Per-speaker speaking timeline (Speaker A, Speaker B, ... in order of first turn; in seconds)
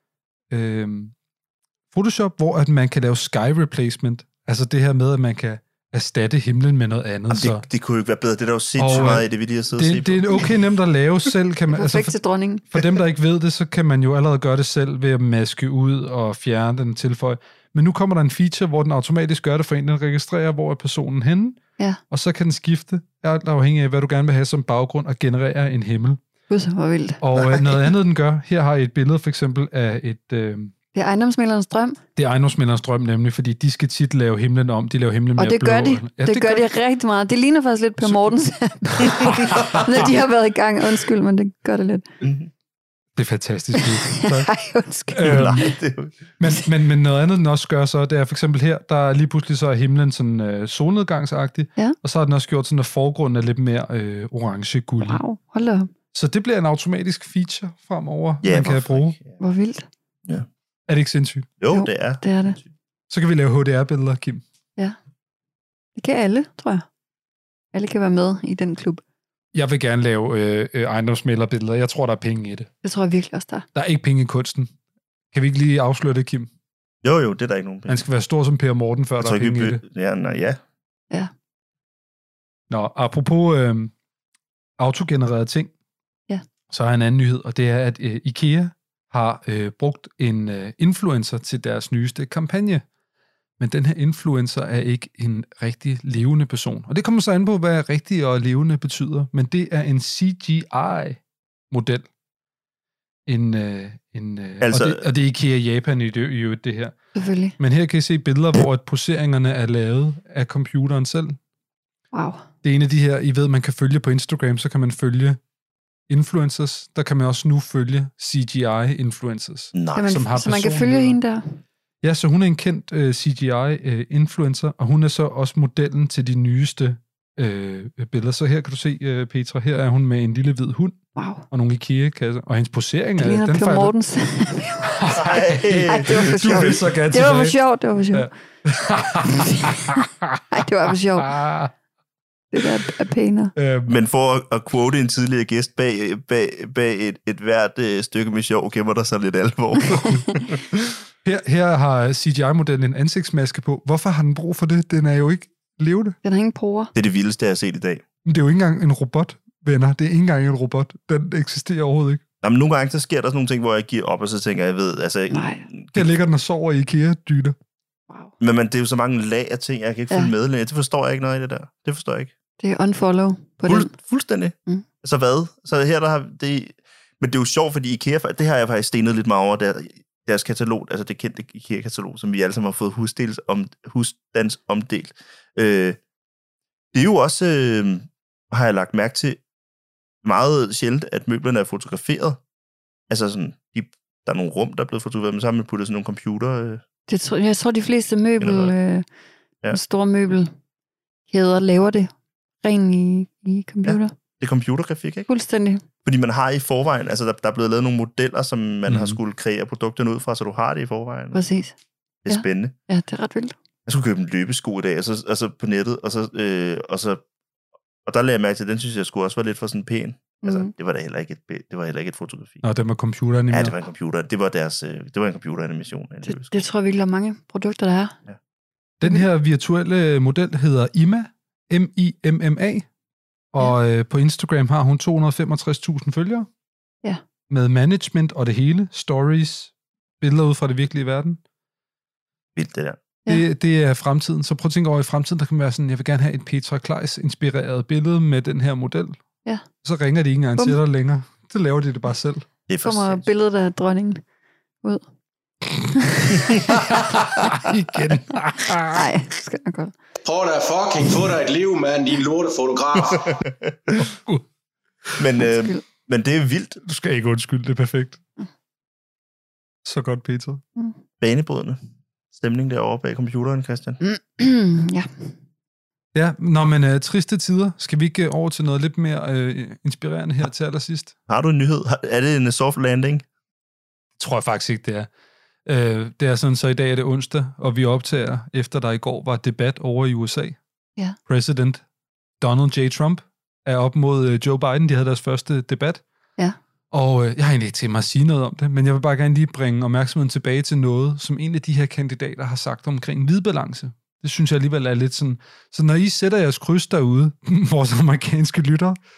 Speaker A: 0.5-1.1, 1.9-7.6, 8.8-12.1, 12.7-21.6, 22.1-26.2, 27.2-30.7, 32.2-36.6, 39.1-39.9, 43.2-44.5, 45.1-45.7, 46.4-55.2, 56.1-59.2, 60.9-61.5, 63.1-64.4, 69.5-72.7, 73.8-74.7, 75.3-76.5, 77.9-79.8, 82.7-83.9, 84.8-85.7, 86.7-92.8, 93.6-102.1, 103.3-107.0, 107.6-111.4, 112.6-115.4, 116.1-121.2, 122.0-131.0, 131.5-133.9, 135.0-137.6, 138.1-140.4, 141.2-141.7, 143.6-143.9, 151.2-156.2, 158.2-162.2, 165.9-167.6, 208.9-209.2, 222.6-223.8, 229.0-232.9, 233.5-236.5, 237.5-241.4, 243.3-249.2, 249.8-252.5, 256.7-259.1, 264.0-264.4, 266.8-268.2, 269.9-270.6, 276.1-281.1, 284.2-285.1, 285.7-290.6, 291.3-291.8, 292.4-296.0, 296.9-309.0
Speaker B: 7.3-10.4, 42.2-42.5, 45.2-46.1, 58.4-59.4, 61.6-62.2, 77.0-78.0, 79.2-80.6, 104.6-105.0, 119.7-120.2, 135.1-136.8, 143.9-150.6, 156.9-158.0, 162.4-166.1, 168.4-172.3, 173.7-186.0, 186.9-189.4, 190.2-192.4, 193.1-196.8, 198.4-198.7, 203.8-205.3, 206.1-211.4, 212.3-212.7, 213.9-217.2, 218.1-222.6, 223.5-226.7, 242.6-243.0, 252.7-253.3, 263.6-264.0, 265.2-266.8, 271.2-271.8, 272.3-274.0, 281.3-283.2
Speaker C: 11.7-12.7, 26.5-27.9, 30.9-32.0, 35.4-42.1, 43.8-45.7, 55.0-55.9, 59.4-59.9, 61.7-62.6, 66.0-66.8, 67.7-69.0, 72.8-73.7, 107.1-107.6, 112.1-112.5, 120.0-121.6, 131.2-131.5, 133.2-135.1, 135.9-138.3, 139.3-139.7, 140.5-141.3, 142.5-143.5, 156.2-156.9, 165.3-165.6, 172.6-173.9, 197.1-199.1, 199.7-200.5, 201.3-202.1, 202.6-204.1, 205.3-205.8, 211.3-211.7, 212.3-213.6, 220.4-220.7, 226.2-228.2, 252.8-254.2, 255.9-256.6, 258.9-259.9, 265.4-265.8, 274.0-275.3
Speaker D: 260.2-263.4